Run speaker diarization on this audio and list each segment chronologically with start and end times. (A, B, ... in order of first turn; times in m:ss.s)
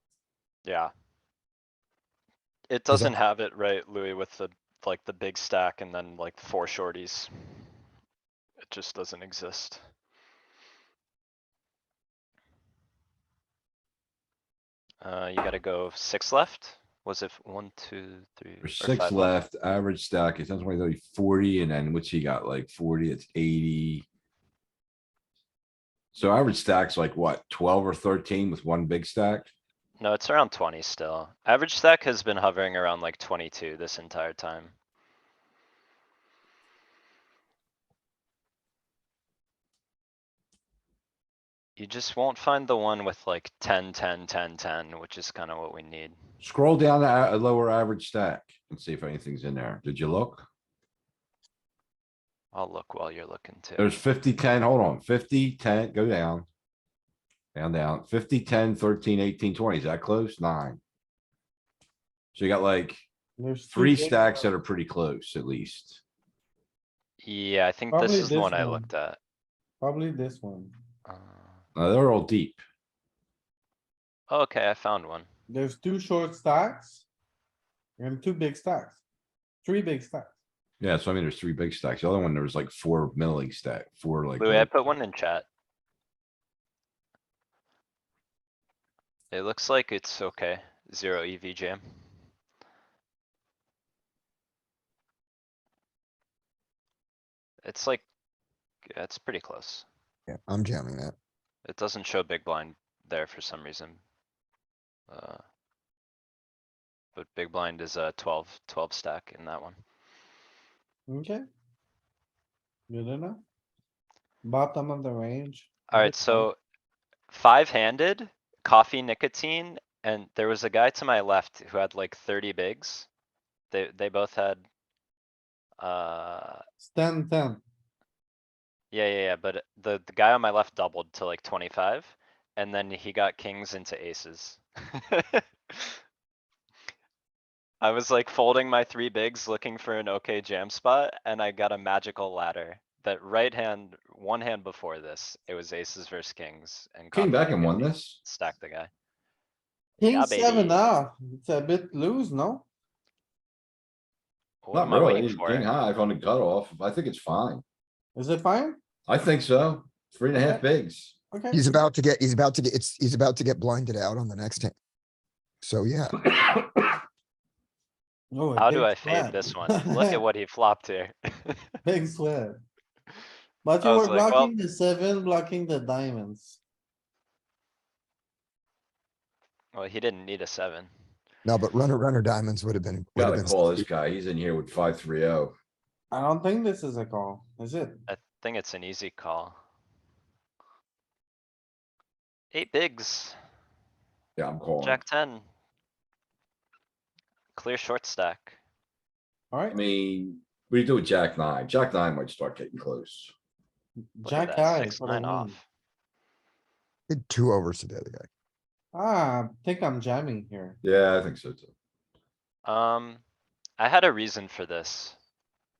0:00.6-0:00.9 A
0:02.7-0:07.7 A
0:08.6-0:09.8 A
0:15.0-0:19.4 A
0:18.6-0:24.0 B
0:26.1-0:29.5 B
0:30.0-0:34.7 A
0:41.8-0:46.2 A
0:46.4-0:50.5 B
0:52.5-0:54.0 A
0:53.8-0:56.5 B
0:57.6-1:00.8 B
1:02.4-1:03.0 B
1:03.4-1:04.5 C
1:03.7-1:06.0 B
1:07.2-1:09.2 A
1:07.9-1:08.9 C
1:09.8-1:10.7 C
1:11.1-1:11.5 A
1:11.8-1:12.6 B
1:14.3-1:15.3 A
1:15.5-1:17.1 C
1:18.0-1:19.0 C
1:19.6-1:20.3 C
1:20.8-1:24.7 B
1:24.4-1:25.5 A
1:29.3-1:31.8 A
1:37.6-1:38.0 A
1:38.9-1:39.9 A
1:40.3-1:41.1 D
1:41.6-1:44.0 A
1:45.1-1:45.4 A
1:47.2-1:49.8 A
1:51.1-1:51.4 C
1:52.9-1:53.4 C
1:54.4-1:56.5 C
1:55.9-1:56.6 A
1:57.3-2:03.1 A
2:03.7-2:04.6 A
2:05.8-2:06.6 A
2:06.8-2:07.6 C
2:08.9-2:16.0 A
2:17.8-2:28.9 A
2:27.1-2:28.2 B
2:30.0-2:32.7 C
2:30.1-2:30.9 A
2:34.6-2:35.7 A
2:34.7-2:37.6 B
2:38.2-2:38.8 C
2:39.1-2:41.2 B
2:40.3-2:40.6 C
2:41.3-2:41.6 C
2:41.5-2:44.8 D
2:45.6-2:46.3 D
2:48.3-2:50.2 C
2:48.6-2:51.7 A
2:51.8-2:52.6 C
2:53.6-2:56.6 C
2:53.8-2:54.5 A
2:59.7-3:00.9 A
3:01.4-3:03.8 D
3:03.2-3:05.5 B
3:06.1-3:08.1 C
3:08.1-3:09.6 A
3:12.5-3:13.4 A
3:14.4-3:15.0 B
3:14.8-3:15.4 A
3:17.6-3:18.6 A
3:19.5-3:19.8 C
3:19.7-3:23.3 B
3:24.1-3:25.6 C
3:24.2-3:25.6 A
3:27.1-3:28.3 D
3:28.9-3:30.8 C
3:30.8-3:31.7 B
3:32.6-3:33.2 A
3:33.8-3:35.2 A